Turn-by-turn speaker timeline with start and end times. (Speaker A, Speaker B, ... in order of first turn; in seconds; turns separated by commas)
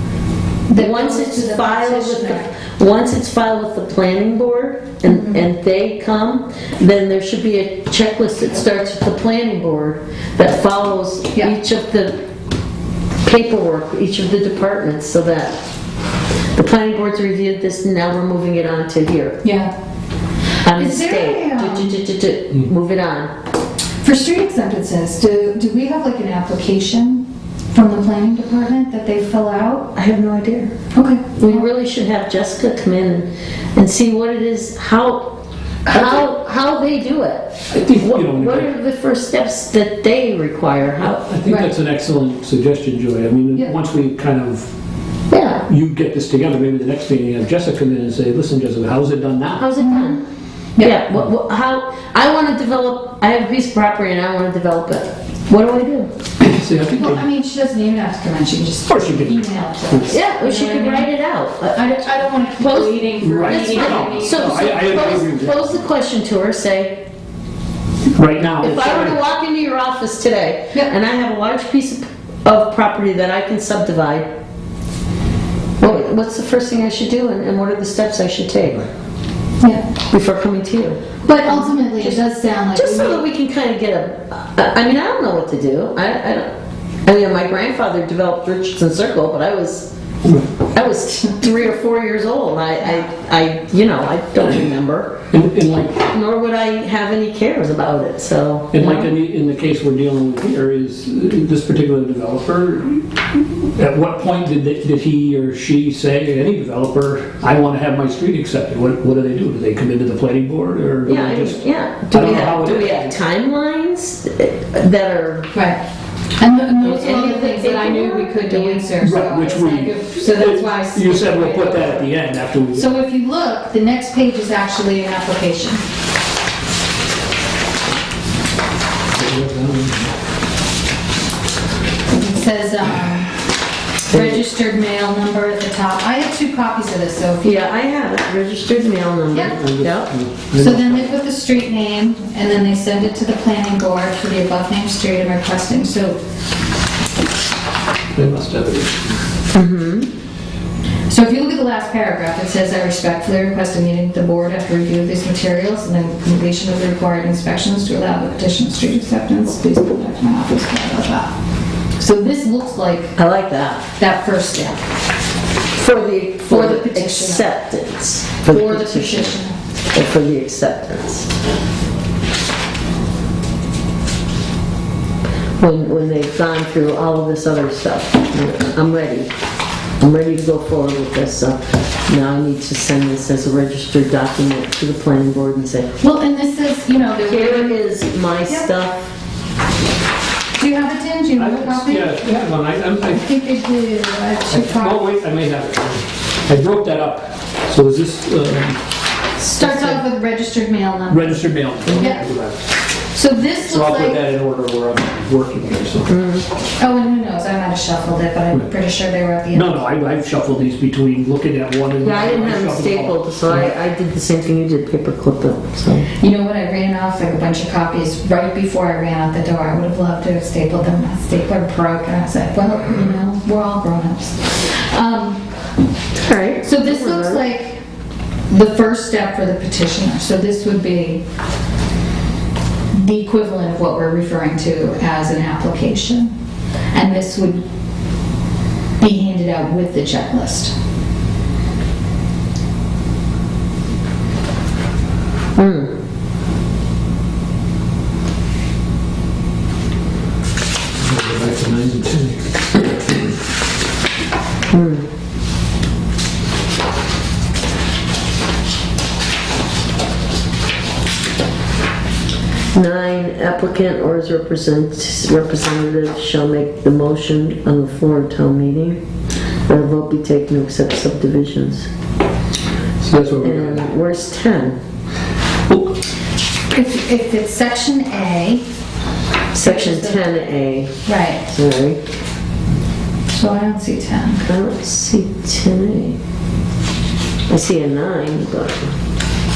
Speaker A: 0.7-2.5, Speaker B: 0.8-12.2, Speaker A: 5.1-5.4, Speaker B: 13.2-15.6, Speaker B: 16.6-19.4, Speaker A: 19.4-19.7, Speaker B: 20.6-23.3, Speaker A: 20.7-22.0, Speaker A: 24.0-29.9, Speaker B: 29.9-30.7, Speaker A: 30.9-31.6, Speaker B: 31.4-41.3, Speaker C: 37.7-38.7, Speaker C: 41.3-44.7, Speaker B: 45.3-45.7, Speaker C: 45.7-49.6, Speaker B: 49.6-50.2, Speaker A: 49.8-50.2, Speaker B: 50.8-56.1, Speaker C: 56.4-57.2, Speaker A: 57.0-61.1, Speaker C: 58.9-60.2, Speaker B: 60.0-67.0, Speaker A: 61.7-64.8, Speaker C: 63.2-65.8, Speaker C: 68.2-69.2, Speaker B: 68.6-74.3, Speaker B: 75.8-78.9, Speaker A: 79.6-79.9, Speaker B: 80.1-82.2, Speaker A: 81.2-83.3, Speaker B: 82.7-86.5, Speaker B: 87.1-95.2, Speaker C: 95.3-96.1, Speaker B: 96.1-99.1, Speaker C: 98.7-113.2, Speaker B: 111.1-115.5, Speaker A: 115.5-115.8, Speaker A: 116.4-122.2, Speaker B: 116.7-118.9, Speaker C: 119.0-122.9, Speaker A: 122.7-125.8, Speaker C: 129.1-130.1, Speaker A: 132.1-133.3, Speaker B: 134.1-134.4, Speaker A: 134.1-137.6, Speaker B: 137.4-140.1, Speaker A: 139.3-139.6, Speaker C: 139.4-141.1, Speaker A: 140.6-146.2, Speaker C: 148.1-149.2, Speaker B: 149.5-150.1, Speaker A: 151.1-161.3, Speaker A: 162.0-163.2, Speaker B: 163.2-163.9, Speaker A: 164.0-164.8, Speaker B: 165.7-169.4, Speaker A: 166.5-167.5, Speaker A: 168.5-169.6, Speaker B: 169.9-171.3, Speaker B: 175.6-179.3, Speaker B: 180.0-185.9, Speaker A: 186.0-187.8, Speaker B: 187.2-189.1, Speaker A: 190.6-192.1, Speaker C: 191.4-193.2, Speaker A: 193.1-195.2, Speaker C: 194.5-198.8, Speaker B: 199.4-200.0, Speaker A: 199.5-202.3, Speaker C: 201.1-202.6, Speaker A: 203.1-204.2, Speaker C: 203.6-206.1, Speaker B: 206.1-206.5, Speaker A: 206.8-209.9, Speaker C: 209.5-213.8, Speaker B: 212.0-216.1, Speaker A: 216.2-225.4, Speaker B: 226.2-227.4, Speaker A: 226.6-227.8, Speaker A: 228.5-231.2, Speaker A: 232.9-236.3, Speaker A: 236.9-237.6, Speaker A: 239.0-240.7, Speaker B: 245.6-245.9, Speaker C: 251.0-253.3, Speaker B: 254.7-255.1, Speaker B: 262.7-269.0, Speaker B: 269.7-271.9, Speaker C: 273.0-273.9, Speaker B: 273.4-274.8, Speaker C: 275.7-275.9, Speaker A: 276.7-278.6, Speaker B: 279.5-282.0, Speaker A: 279.5-280.2, Speaker A: 281.1-281.4, Speaker A: 283.3-284.5, Speaker B: 284.4-286.2, Speaker B: 287.5-289.0